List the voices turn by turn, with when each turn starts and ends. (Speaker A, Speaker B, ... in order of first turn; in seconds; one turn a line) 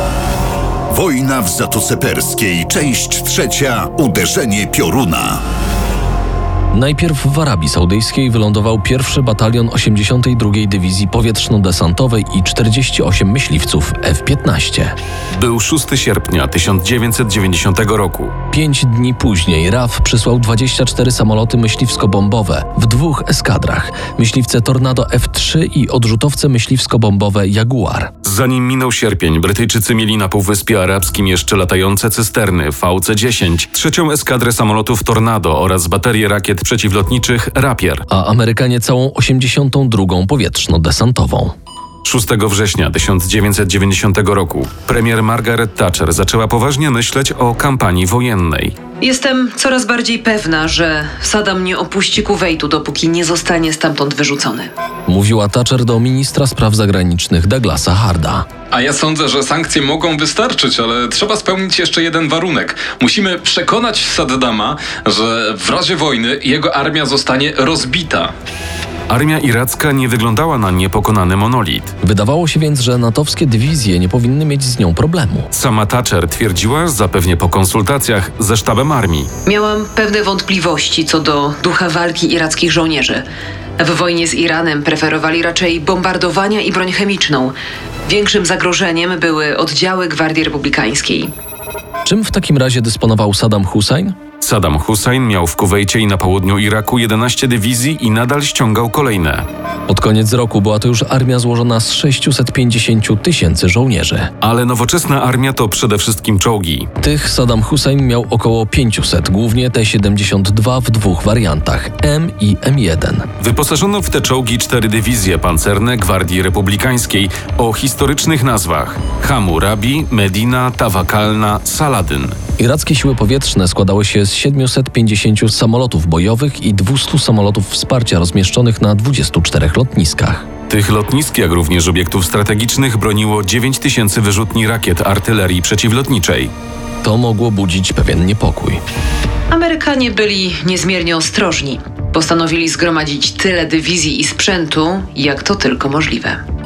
Speaker A: 0.9-5.4
Speaker B: 6.7-14.9
Speaker C: 15.3-18.3
Speaker B: 18.5-28.1
Speaker C: 28.2-38.0
Speaker B: 38.1-41.5
Speaker C: 42.0-48.7
Speaker D: 49.0-54.7
Speaker B: 55.1-58.5
Speaker E: 58.7-68.3
Speaker C: 69.1-71.9
Speaker B: 72.0-75.5
Speaker C: 75.5-79.3
Speaker D: 79.4-83.2
Speaker D: 83.8-87.5
Speaker D: 88.0-91.3
Speaker B: 92.0-94.2
Speaker C: 94.4-99.5
Speaker B: 99.9-104.3
Speaker C: 104.4-106.9
Speaker B: 107.0-113.3
Speaker C: 113.4-122.3
Speaker B: 122.6-130.4
Speaker C: 130.7-136.5
Speaker B: 137.0-138.8
Speaker D: 139.5-146.4